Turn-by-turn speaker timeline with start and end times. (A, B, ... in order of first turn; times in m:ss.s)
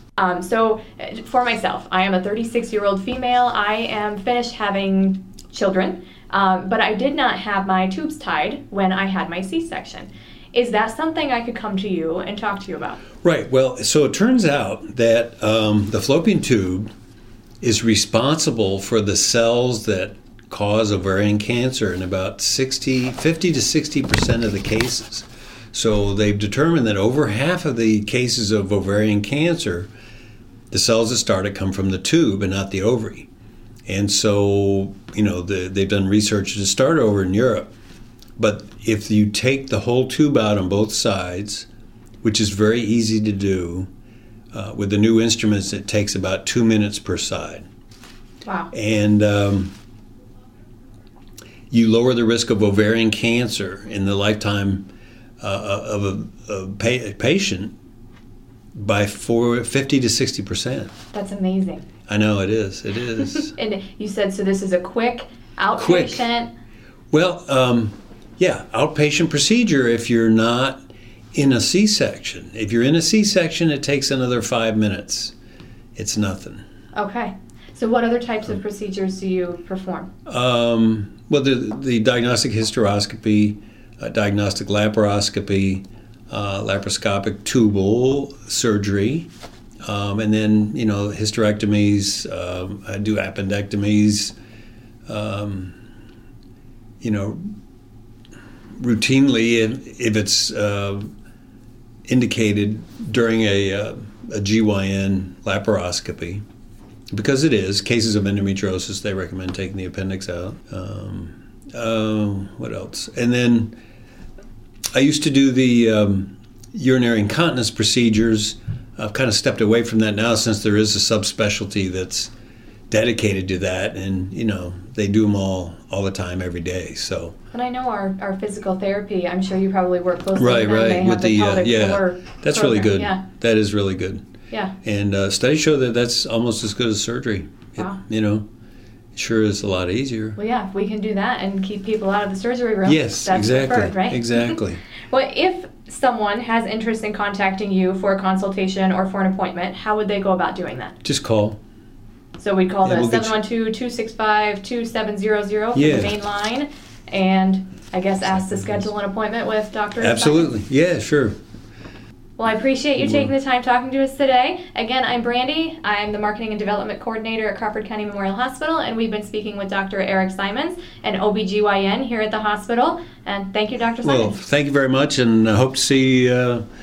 0:00.2-0:13.0 A
0:13.2-0:16.9 B
0:17.6-0:29.9 B
0:30.7-0:33.3 B
0:33.9-0:37.7 B
0:38.4-0:41.7 B
0:42.2-0:43.9 B
0:44.5-0:47.6 B
0:48.4-0:48.7 A
0:48.7-0:49.7 B
0:51.7-0:54.9 B
0:55.4-0:57.8 B
0:58.8-1:00.9 B
1:01.1-1:01.9 A
1:02.1-1:03.5 B
1:03.5-1:06.5 A
1:05.7-1:06.3 B
1:07.1-1:15.3 B
1:16.0-1:16.6 B
1:17.0-1:20.1 A
1:20.3-1:29.3 B
1:29.8-1:34.4 B
1:35.1-1:35.8 B
1:37.0-1:37.5 B
1:38.8-1:41.1 B
1:42.1-1:46.4 B
1:47.1-1:53.8 B
1:54.9-2:02.3 B
2:02.9-2:07.4 B
2:07.5-2:13.2 A
2:10.4-2:14.3 B
2:14.8-2:18.4 B
2:19.2-2:20.4 B
2:20.4-2:24.6 A
2:22.9-2:24.8 B
2:25.1-2:31.0 A
2:31.0-2:31.6 B
2:32.4-2:40.5 A
2:32.8-2:33.4 B
2:35.8-2:36.1 B
2:40.0-2:41.4 B
2:42.4-2:54.4 A
2:43.0-2:43.3 B
2:54.0-2:56.6 B